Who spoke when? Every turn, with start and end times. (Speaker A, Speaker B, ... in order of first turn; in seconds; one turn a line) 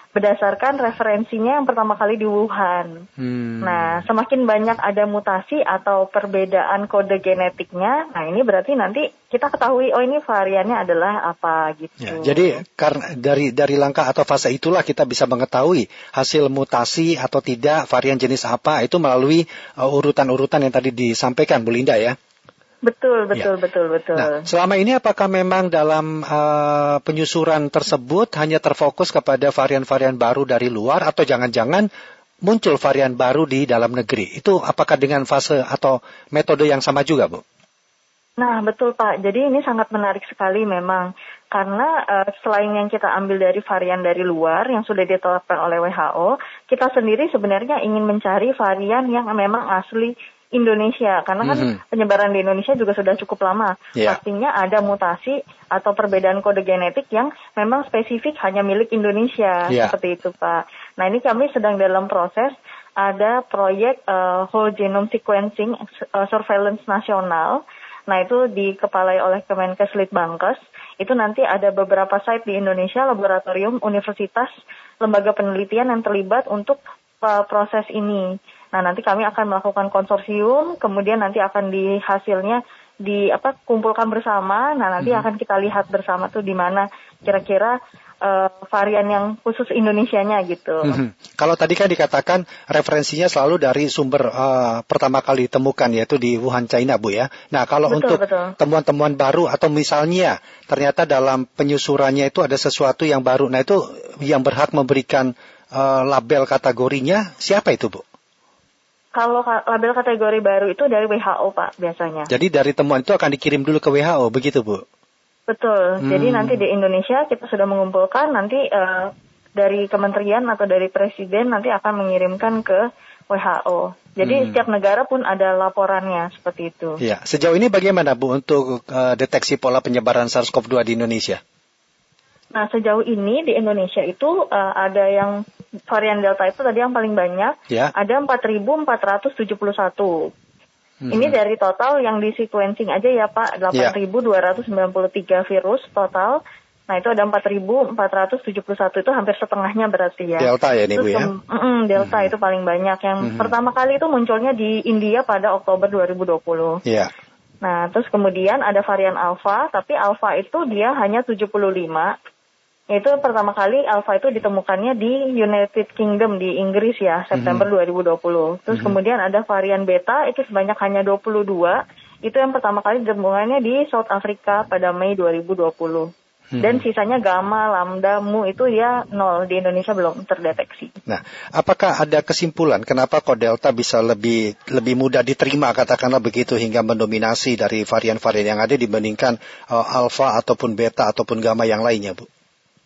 Speaker A: 0.2-2.9
Speaker B: 3.2-4.1
Speaker A: 3.6-12.6
Speaker B: 12.0-22.1
Speaker A: 22.8-24.4
Speaker B: 24.1-31.9
Speaker B: 32.5-37.4
Speaker A: 38.4-74.5
Speaker B: 51.4-51.8
Speaker B: 59.7-59.9
Speaker A: 75.0-91.0
Speaker B: 85.0-85.3
Speaker B: 90.8-108.0
Speaker A: 97.9-98.5
Speaker A: 109.2-112.3
Speaker B: 112.3-114.8
Speaker A: 115.5-127.0
Speaker B: 116.0-116.6
Speaker B: 124.2-124.6
Speaker B: 127.0-131.4
Speaker A: 132.5-135.4
Speaker A: 135.9-140.1
Speaker B: 141.0-141.4
Speaker A: 141.1-146.4
Speaker A: 146.9-156.8
Speaker B: 150.4-151.3
Speaker B: 152.0-152.3
Speaker B: 153.2-153.5
Speaker B: 156.9-157.1
Speaker A: 157.6-162.1
Speaker A: 162.9-176.1
Speaker B: 167.3-167.7
Speaker B: 168.7-169.0
Speaker B: 176.5-176.8
Speaker A: 176.6-180.9
Speaker B: 181.1-192.3